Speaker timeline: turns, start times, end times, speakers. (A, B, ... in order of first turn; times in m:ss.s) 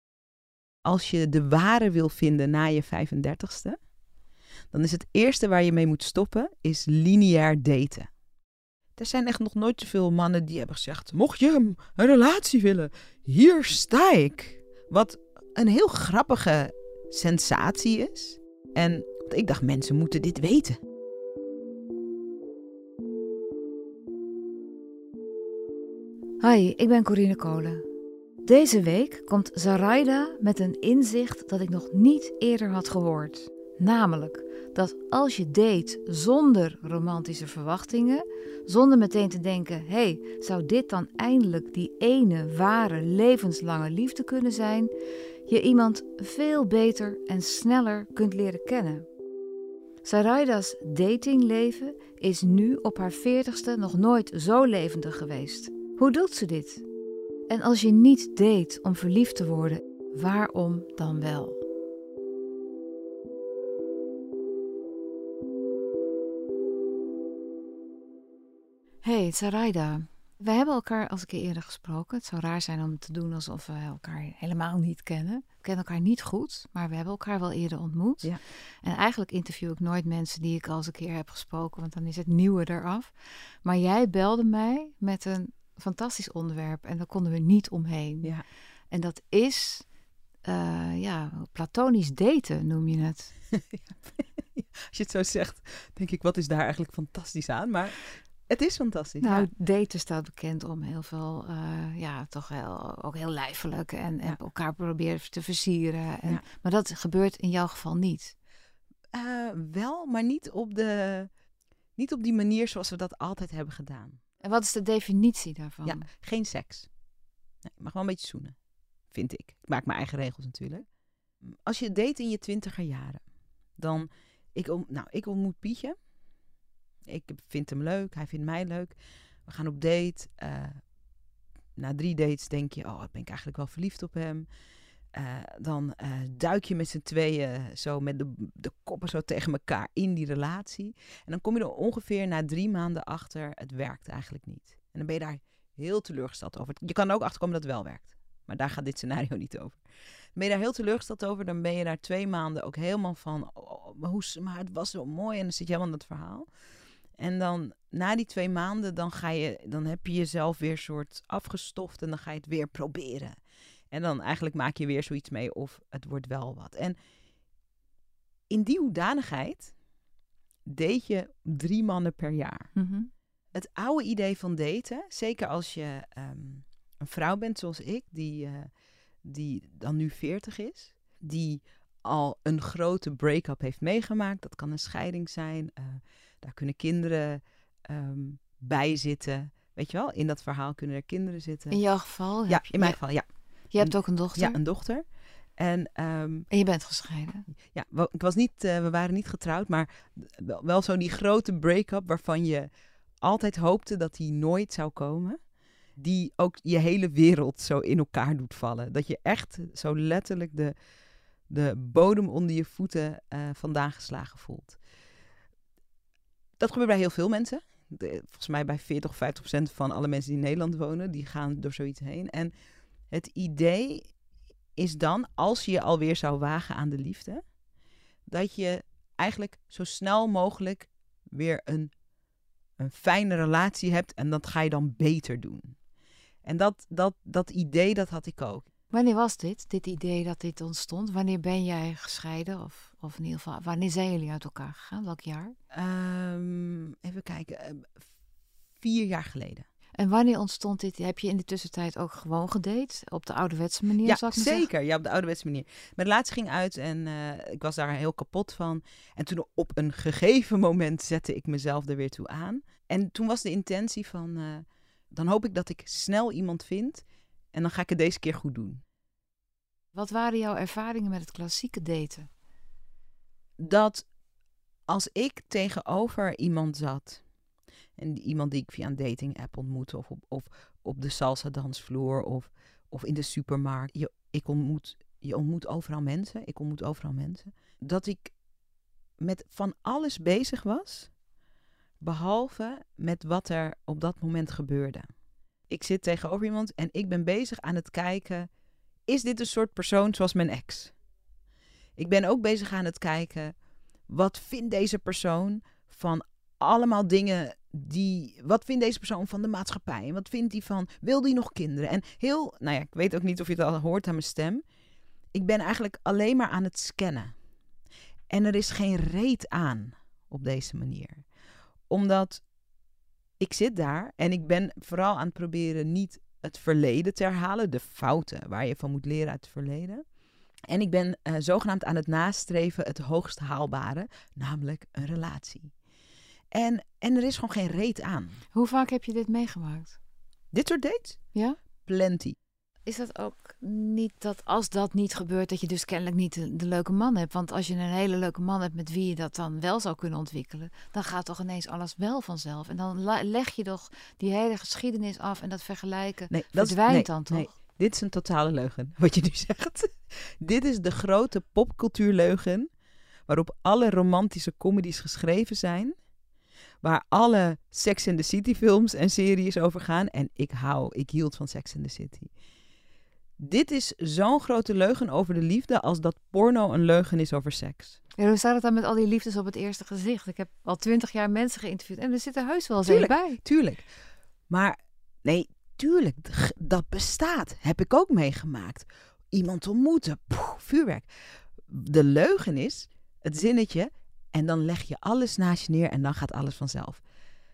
0:00.8-0:03.8 A
0:04.7-0:08.1 A
0:09.0-0:20.8 A
0:26.4-0:27.8 B
0:28.4-0:44.9 B
0:45.5-0:49.0 B
0:50.0-0:56.8 B
0:57.5-1:01.6 B
1:09.0-1:18.3 B
1:18.8-1:23.1 B
1:23.6-1:28.3 B
1:28.9-1:29.8 B
1:30.4-1:33.3 B
1:33.5-1:39.5 A
1:39.2-1:48.3 B
1:49.1-1:51.3 A
1:52.0-1:54.2 A
1:54.4-1:56.0 B
1:55.8-1:56.9 A
1:57.6-1:58.5 A
1:59.1-2:00.8 A
2:01.6-2:03.2 A
2:03.8-2:06.0 A
2:07.0-2:10.8 A
2:11.8-2:14.5 A
2:15.1-2:29.8 A
2:30.3-2:36.5 A
2:37.2-2:43.4 A
2:43.9-2:47.0 A
2:48.5-2:49.7 A
2:50.6-2:52.7 A
2:52.8-2:53.1 B
2:53.5-2:58.7 A
2:59.2-3:11.8 A
3:11.7-3:13.0 B
3:12.5-3:13.2 A
3:13.7-3:14.6 B
3:13.8-3:15.0 A
3:15.6-3:16.5 A
3:16.5-3:17.5 B
3:17.7-3:22.7 A
3:23.2-3:25.4 A
3:25.9-3:30.7 A
3:31.5-3:34.8 A
3:36.6-3:42.5 A
3:43.1-3:44.1 A
3:44.8-3:47.4 A
3:48.3-3:51.9 A
3:52.8-3:55.8 A
3:56.4-3:58.7 A
3:58.9-4:05.6 B
4:05.7-4:08.0 A
4:08.8-4:09.6 A
4:10.0-4:14.7 B
4:14.0-4:28.8 A
4:29.9-4:32.3 B
4:33.6-4:34.1 A
4:34.9-4:37.2 A
4:38.0-4:48.3 A
4:49.2-4:51.1 A
4:52.0-4:55.1 A
4:55.7-4:58.5 A
4:59.1-5:00.9 A
5:02.0-5:03.5 A
5:04.1-5:14.6 A
5:15.3-5:17.3 A
5:18.3-5:21.2 A
5:21.9-5:22.4 A
5:23.4-5:30.0 A
5:30.7-5:35.7 A
5:36.5-5:38.4 A
5:38.5-5:40.0 B
5:40.5-5:41.2 A
5:41.8-5:42.4 A
5:42.8-5:57.5 B
5:56.3-6:02.7 A
6:03.3-6:06.0 A
6:06.8-6:12.3 A
6:13.4-6:18.0 A
6:18.2-6:23.4 B
6:22.8-6:23.9 A
6:24.5-6:37.0 A